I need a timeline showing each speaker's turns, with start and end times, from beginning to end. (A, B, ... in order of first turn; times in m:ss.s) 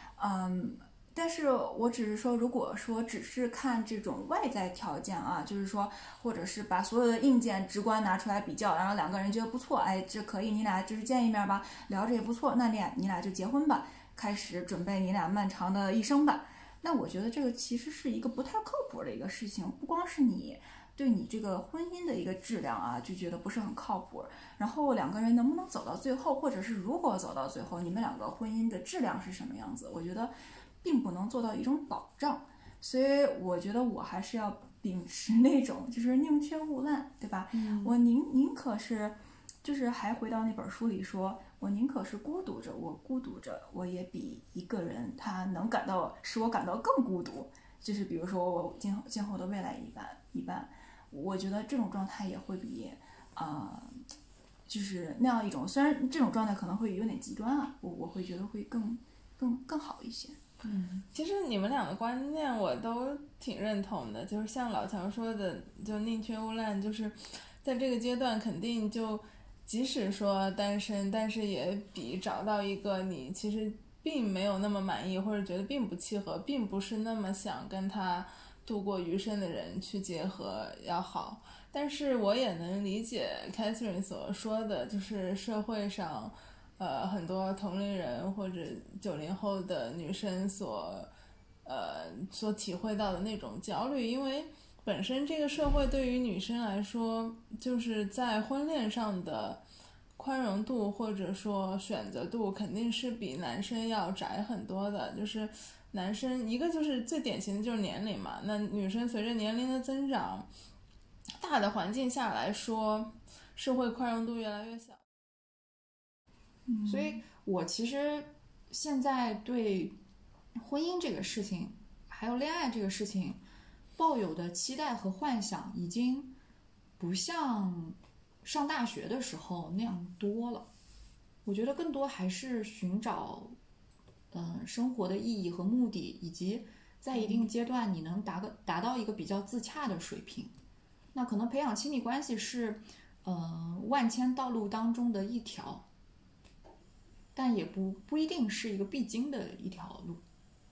0:00.2-0:54.0 A
0:37.5-0:37.9 B
0:54.7-1:00.4 A
1:00.6-1:01.0 B
1:01.1-1:31.1 C
1:31.6-1:39.6 C
1:40.2-1:50.5 C
1:51.4-1:55.0 C
1:56.7-1:57.2 A
1:56.9-2:00.0 B
2:00.6-2:03.4 B
2:04.0-2:06.4 B
2:07.0-2:10.7 B
2:11.4-2:13.6 B
2:14.3-2:20.5 B
2:17.2-2:17.5 A
2:21.1-2:25.9 B
2:27.4-2:30.2 B